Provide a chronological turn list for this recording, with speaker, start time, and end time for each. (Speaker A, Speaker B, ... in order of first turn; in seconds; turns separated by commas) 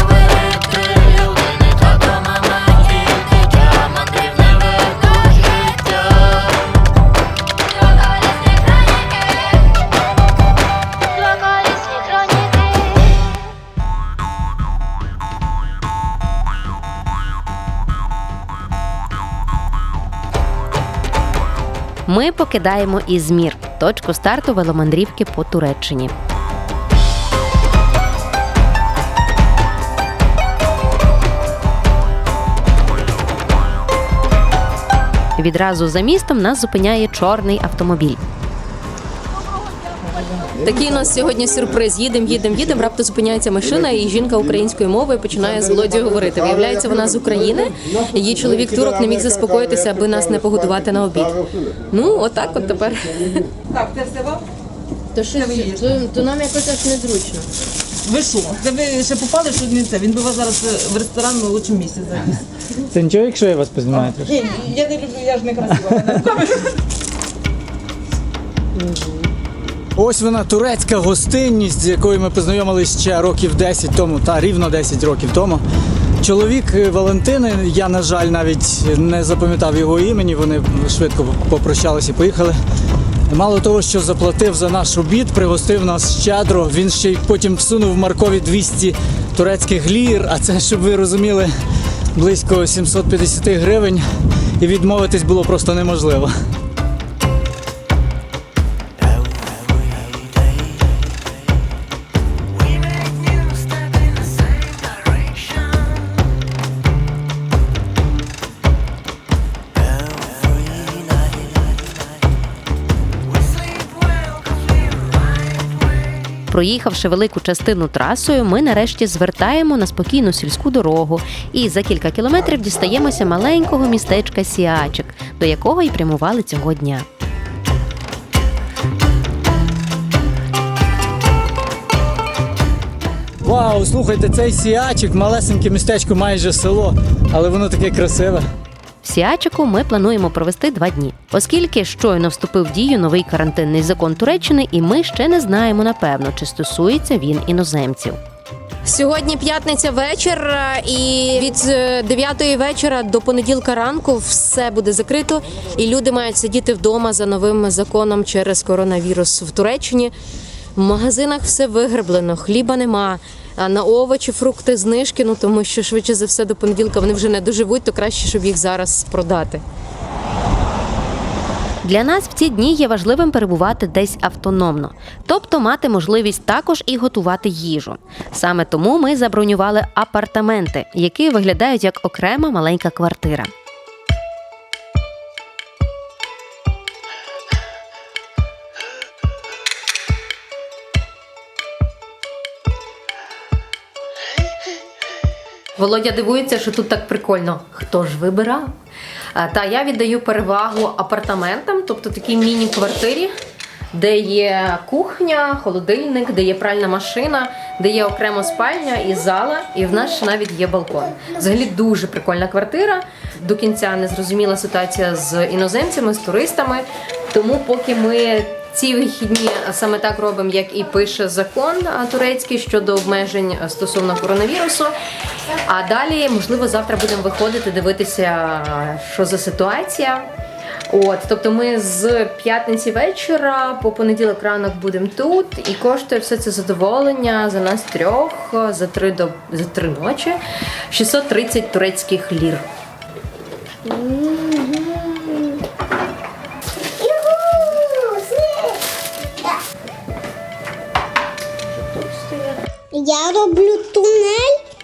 Speaker A: 0.3-5.9, Speaker B: 8.2-9.0, Speaker B: 11.3-12.8, Speaker B: 22.1-26.1, Speaker B: 35.4-38.2, Speaker C: 40.1-40.5, Speaker D: 40.5-53.9, Speaker C: 53.7-54.4, Speaker D: 55.1-57.5, Speaker C: 58.0-62.3, Speaker A: 62.8-64.4, Speaker C: 64.3-66.7, Speaker A: 65.8-66.3, Speaker C: 68.8-69.3, Speaker A: 69.9-75.6, Speaker A: 76.2-82.6, Speaker A: 83.3-91.5, Speaker A: 92.1-94.0, Speaker A: 94.6-96.3, Speaker B: 116.5-127.1, Speaker A: 133.4-138.4, Speaker B: 139.0-148.2, Speaker D: 148.8-160.1, Speaker D: 160.7-169.6, Speaker B: 171.8-183.5, Speaker D: 195.8-198.7, Speaker D: 199.3-203.3, Speaker D: 203.9-224.9, Speaker D: 225.5-230.3, Speaker D: 230.9-242.7, Speaker E: 243.8-245.6, Speaker E: 247.0-248.8, Speaker E: 252.9-254.6